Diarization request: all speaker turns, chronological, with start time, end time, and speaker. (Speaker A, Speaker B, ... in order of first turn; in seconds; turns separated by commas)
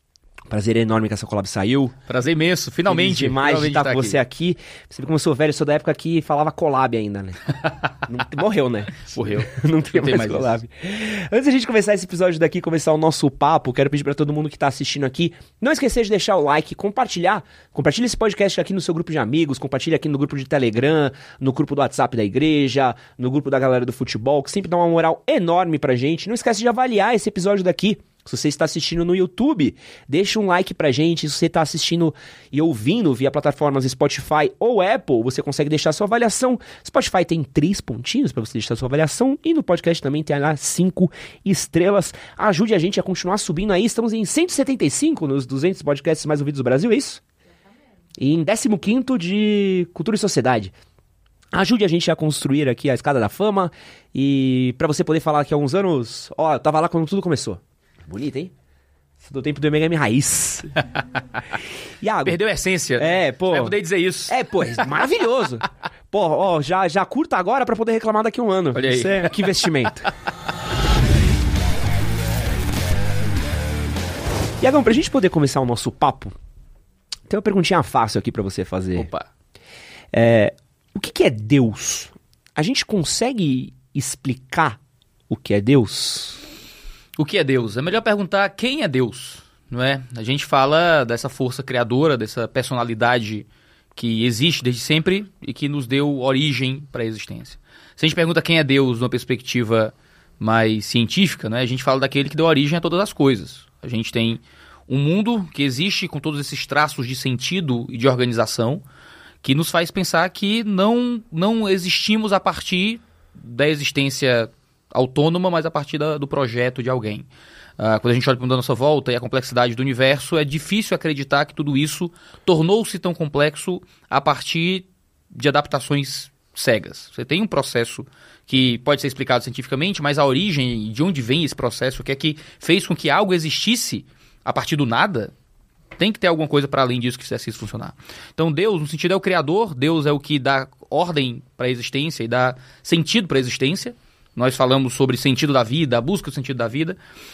Speaker A: 0.5-1.9, Speaker B: 2.1-4.2, Speaker A: 2.9-47.2, Speaker B: 9.1-10.5, Speaker A: 48.2-50.7, Speaker A: 51.5-58.5, Speaker A: 59.2-60.8, Speaker A: 62.0-62.4, Speaker B: 62.2-64.9, Speaker A: 63.0-70.1, Speaker B: 68.7-70.0, Speaker A: 74.6-76.3, Speaker A: 77.3-79.1, Speaker B: 79.0-79.3, Speaker A: 80.1-86.4, Speaker B: 87.2-108.8, Speaker B: 109.4-117.3, Speaker B: 117.8-135.3, Speaker B: 136.0-147.0